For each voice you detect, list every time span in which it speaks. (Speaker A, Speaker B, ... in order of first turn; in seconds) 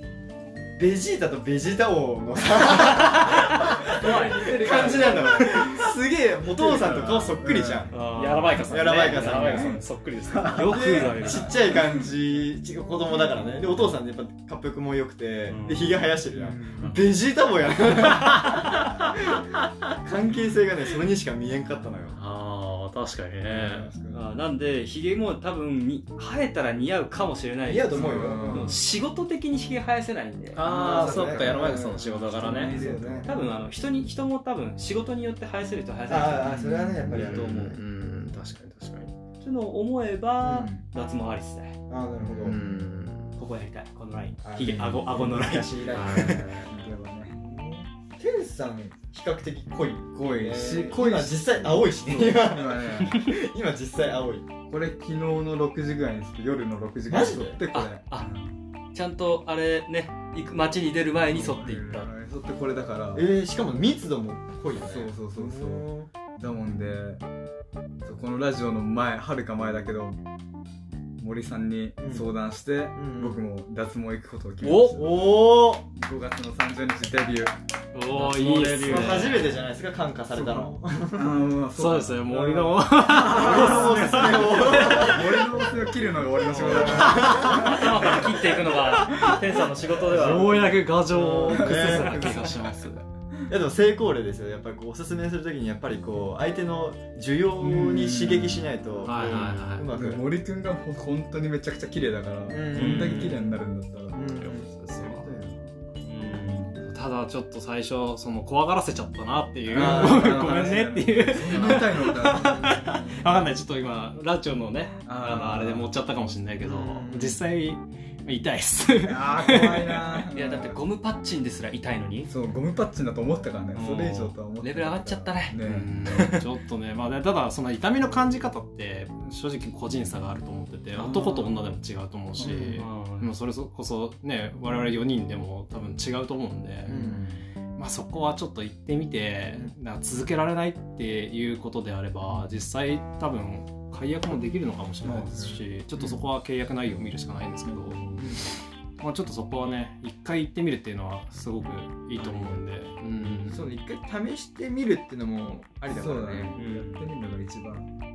Speaker A: 0.8-8.0, 8.6-9.8, 10.6-22.2, 27.6-28.8, 30.6-33.4, 36.1-37.8, 41.9-42.6, 44.4-54.5, 57.1-57.6, 63.1-66.1, 72.0-72.3, 72.9-73.4, 74.9-75.9, 78.8-81.4, 83.1-85.4, 86.4-88.3, 91.1-92.5, 93.5-100.2, 102.5-103.6, 104.1-105.6, 109.7-110.6, 116.6-117.4, 136.9-137.2, 148.2-148.5, 152.2-152.6, 153.4-156.5
Speaker B: 2.7-5.4, 7.9-9.6, 10.5-11.5, 15.5-16.0, 16.6-17.0, 24.1-30.6, 32.1-37.8, 39.4-41.8, 43.4-46.6, 57.7-58.3, 58.9-62.1, 78.0-79.6, 84.2-85.0, 86.5-90.8, 99.1-99.7, 102.7-103.4, 106.0-106.8, 111.5-112.0, 120.3-122.3, 123.7-125.6, 132.8-133.3, 156.5-157.1
Speaker C: 3.8-5.9, 6.6-7.9, 10.3-11.8, 16.3-16.9, 23.5-24.3, 27.9-28.8, 30.7-33.4, 36.4-37.1, 40.5-40.8, 42.2-42.5, 46.1-47.4, 50.1-53.3, 54.7-58.5, 61.3-63.3, 64.7-67.2, 68.0-70.2, 71.2-75.4, 75.9-77.5, 80.3-88.3, 91.5-93.4, 97.6-98.7, 99.9-104.4, 109.7-113.3, 115.0-115.9, 119.0-120.8, 122.2-126.4, 130.9-131.5, 132.4-132.8, 136.8-137.4, 145.0-145.6, 147.6-148.4, 155.9-157.9
Speaker D: 4.6-5.4, 6.5-7.2, 8.1-10.8, 18.3-18.7, 22.1-23.9, 30.5-32.8, 37.1-39.1, 42.4-43.3, 74.6-75.1, 77.9-79.5, 81.7-85.5, 86.5-88.2, 88.8-93.0, 99.0-99.9, 104.3-105.3, 106.8-120.2, 125.6-137.0, 137.8-148.0, 149.0-153.6